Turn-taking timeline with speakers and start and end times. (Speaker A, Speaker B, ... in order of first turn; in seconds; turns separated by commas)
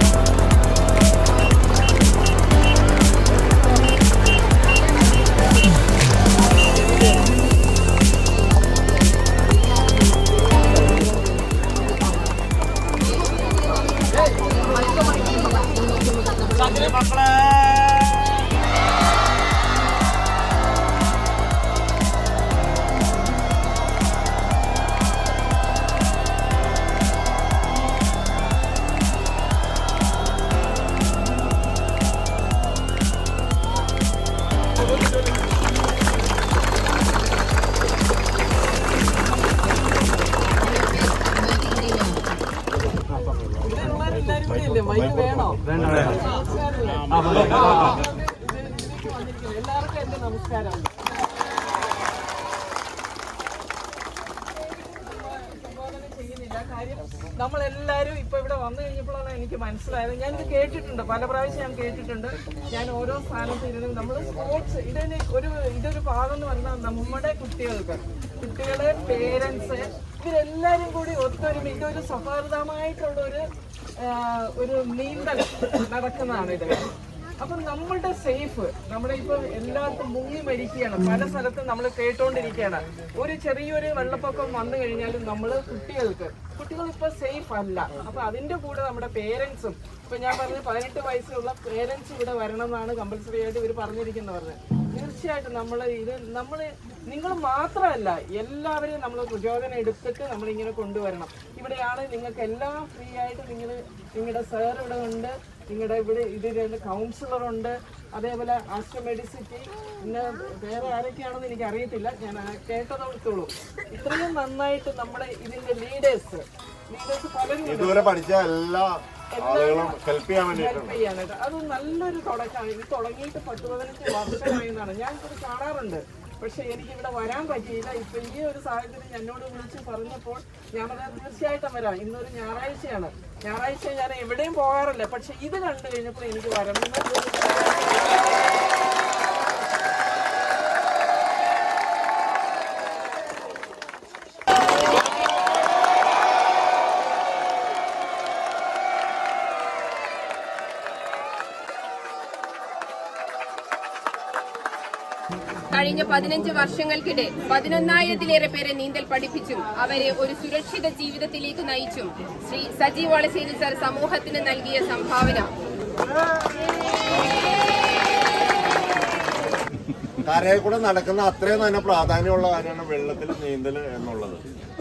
Speaker A: 40.6-42.1, Speaker B: 43.6-50.9, Speaker C: 44.9-46.1, Speaker B: 54.8-73.4, Speaker B: 74.0-76.9, Speaker B: 77.4-118.1, Speaker C: 117.6-121.0, Speaker B: 119.3-120.0, Speaker B: 120.5-138.2, Speaker A: 155.7-165.5, Speaker C: 170.2-174.4